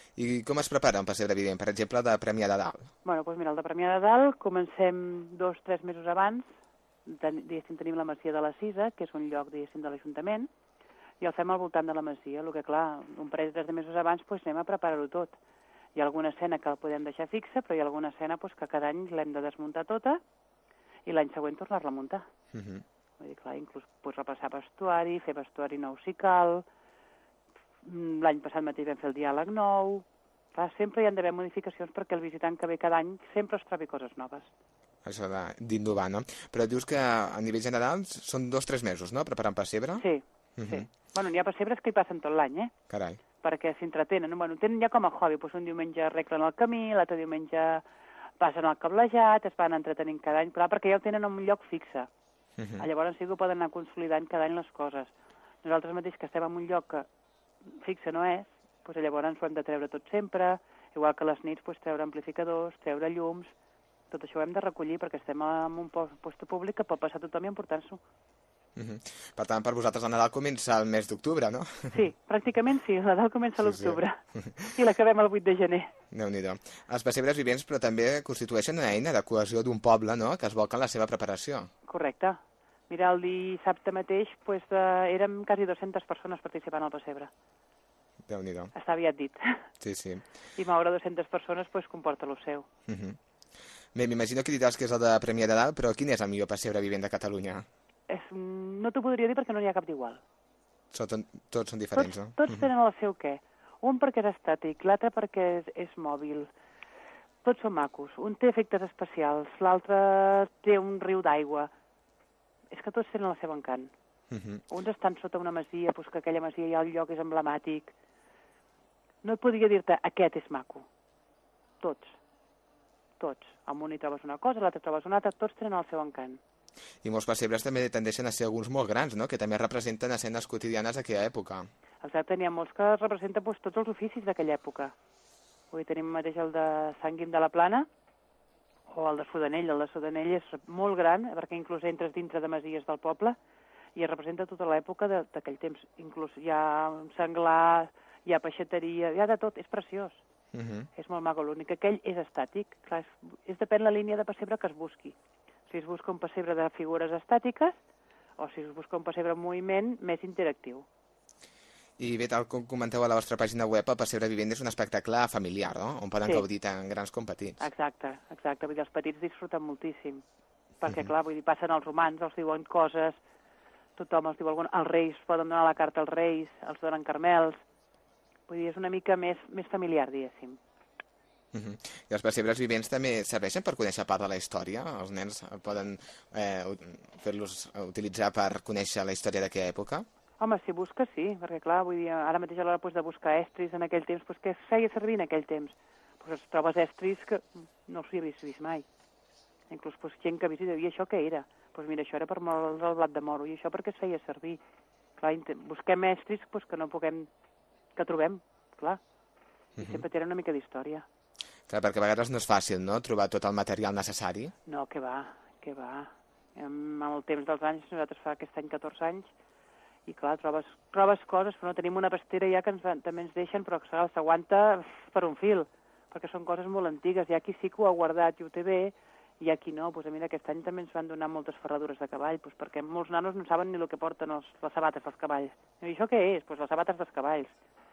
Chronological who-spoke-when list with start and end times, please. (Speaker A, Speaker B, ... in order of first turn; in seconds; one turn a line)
Speaker A: 0.2-2.9
Speaker B: 3.0-6.5
Speaker B: 7.1-10.5
Speaker B: 11.2-15.4
Speaker B: 15.9-20.2
Speaker B: 21.1-22.2
Speaker A: 22.5-22.8
Speaker B: 23.2-26.6
Speaker B: 27.8-34.5
Speaker A: 35.0-40.0
Speaker B: 40.0-42.7
Speaker A: 40.6-40.8
Speaker A: 42.9-43.2
Speaker B: 43.4-47.8
Speaker B: 48.4-52.1
Speaker A: 52.6-52.9
Speaker B: 52.8-55.1
Speaker B: 55.6-57.1
Speaker B: 57.8-63.5
Speaker B: 64.1-68.0
Speaker A: 68.8-72.0
Speaker B: 71.9-75.9
Speaker A: 73.6-74.6
Speaker A: 76.1-81.7
Speaker B: 81.9-87.3
Speaker A: 88.3-88.7
Speaker B: 88.7-89.7
Speaker A: 89.8-90.2
Speaker B: 90.6-92.7
Speaker A: 92.9-93.2
Speaker A: 93.9-97.6
Speaker B: 98.1-100.2
Speaker A: 100.9-102.7
Speaker B: 101.9-106.5
Speaker B: 107.4-111.7
Speaker B: 112.7-113.9
Speaker A: 114.3-114.6
Speaker B: 114.7-117.9
Speaker B: 119.2-120.9
Speaker B: 121.8-122.2
Speaker B: 123.2-126.4
Speaker A: 127.0-131.7
Speaker B: 132.0-134.9
Speaker B: 135.7-137.9
Speaker B: 138.9-143.4
Speaker B: 143.9-150.2
Speaker A: 150.5-150.9
Speaker B: 150.9-155.1
Speaker B: 155.7-157.8
Speaker B: 158.4-160.9
Speaker A: 162.0-167.6
Speaker B: 167.6-170.2
Speaker B: 170.8-173.2
Speaker B: 174.0-177.6
Speaker B: 178.5-180.6
Speaker A: 181.5-190.1
Speaker B: 190.4-198.8
Speaker B: 199.7-204.6
Speaker B: 205.2-207.3
Speaker B: 207.9-209.0
Speaker B: 209.8-211.1
Speaker A: 211.7-214.5
Speaker B: 214.7-219.3
Speaker B: 220.1-237.5